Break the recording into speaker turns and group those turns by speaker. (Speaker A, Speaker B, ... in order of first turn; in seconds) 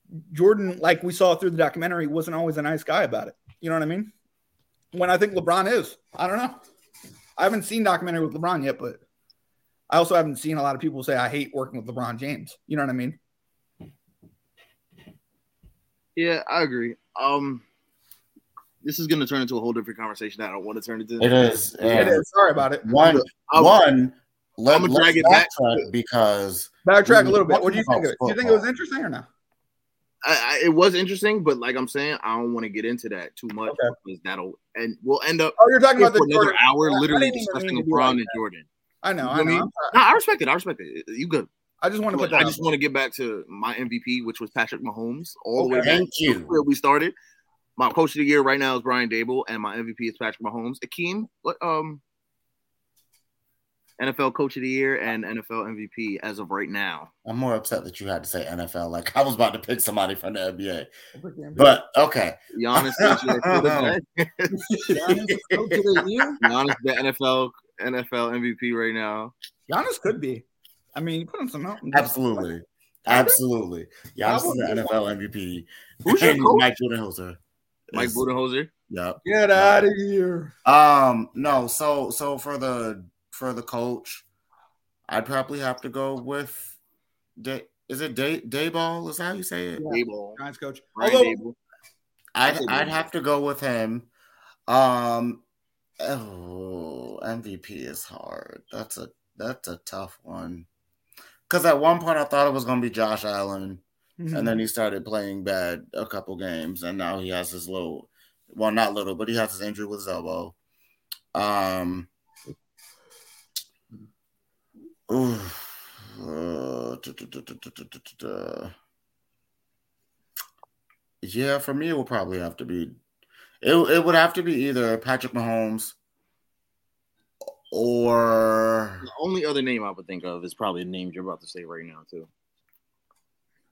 Speaker A: 0.3-4.1, 4.9-6.6, 7.4-9.0, 9.9-13.2, 21.9-22.9, 26.9-29.3, 33.7-33.9, 35.6-38.4, 39.0-40.0, 41.8-42.7, 45.6-46.0, 61.1-61.8, 64.7-66.4, 69.7-70.4, 71.0-72.5, 73.1-73.4, 74.2-75.0, 79.2-80.5, 89.8-91.4, 104.2-104.6
Speaker B: 16.2-17.6, 18.8-21.5, 23.0-23.8, 24.7-25.5, 30.2-38.7, 39.2-41.5, 42.1-47.1, 47.8-52.0, 54.0-57.1, 62.5-64.7, 66.4-69.3, 76.0-76.7, 77.9-78.7, 89.9-90.4, 91.0-91.6, 92.5-93.0, 129.0-132.3
Speaker C: 21.2-22.3, 22.8-28.6, 45.8-46.6, 57.2-60.9, 61.6-64.0, 64.7-66.5, 71.9-77.4, 77.9-78.2, 78.9-79.9, 80.7-84.2, 85.1-86.8, 87.4-89.9, 92.3-94.1, 94.7-95.4, 96.0-100.7, 101.5-110.6, 111.3-112.1, 115.1-118.7, 121.2-123.0, 123.6-126.0, 127.7-129.1